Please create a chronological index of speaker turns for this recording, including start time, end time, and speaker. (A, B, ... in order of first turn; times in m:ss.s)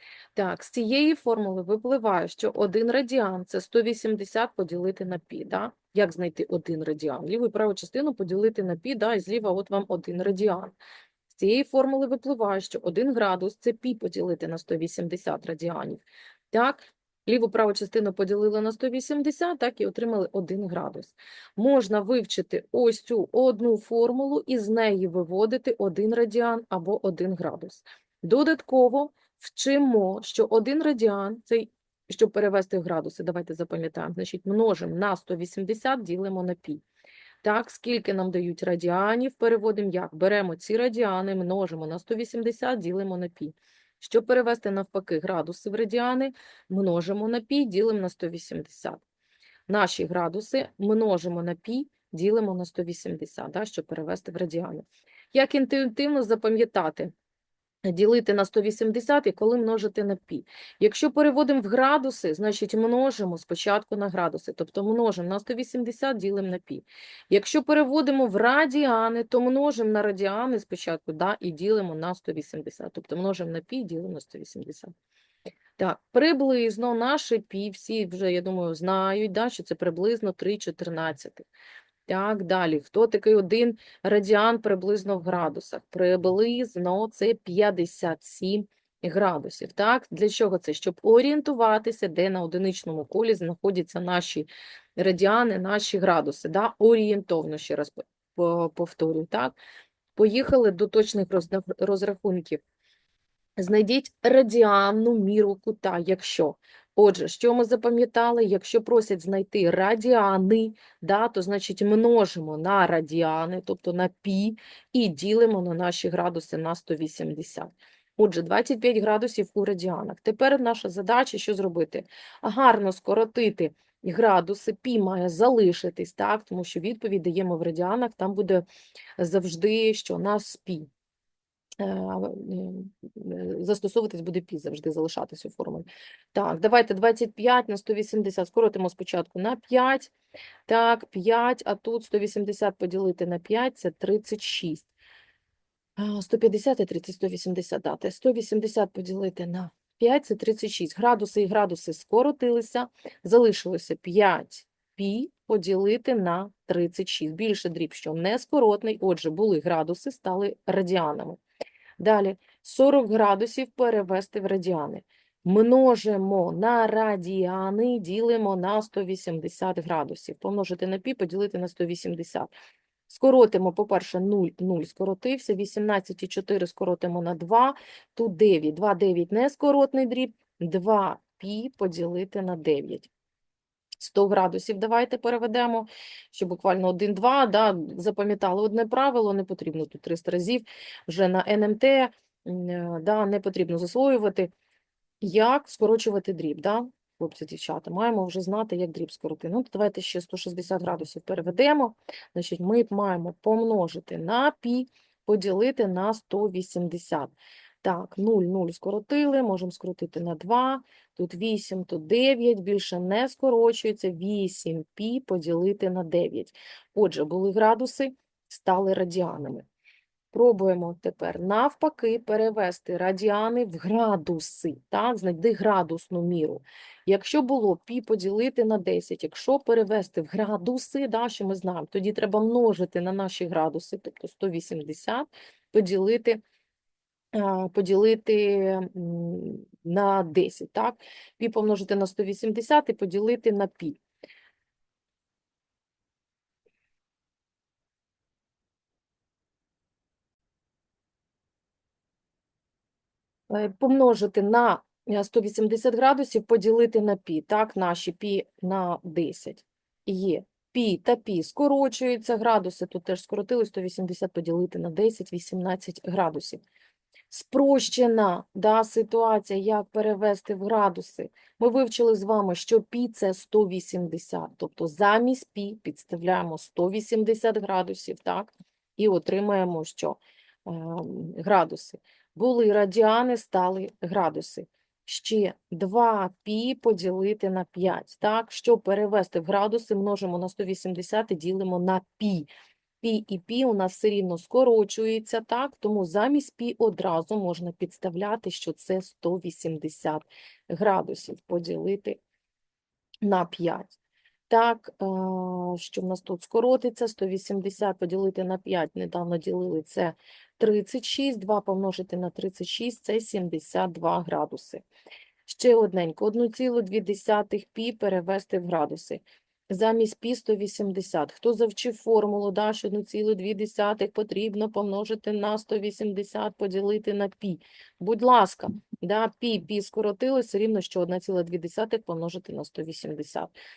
0:00.4-0:10.8 A
0:11.3-0:36.8 A
0:37.4-0:49.0 A
0:49.7-0:57.1 A
0:57.9-1:14.9 A
1:15.8-1:21.5 A
1:22.1-1:39.6 A
1:40.2-1:42.6 A
1:43.6-2:08.7 A
2:09.2-2:10.9 A
2:11.8-2:20.1 A
2:20.7-2:24.9 A
2:26.0-2:41.4 A
2:42.0-2:52.5 A
2:53.1-3:03.1 A
3:04.0-3:14.5 A
3:15.2-3:39.6 A
3:40.3-3:56.4 A
3:57.3-4:04.0 A
4:13.5-4:26.6 A
4:27.3-4:52.5 A
4:53.0-5:02.2 A
5:03.2-5:04.0 A
5:04.5-5:14.8 A
5:15.5-5:33.5 A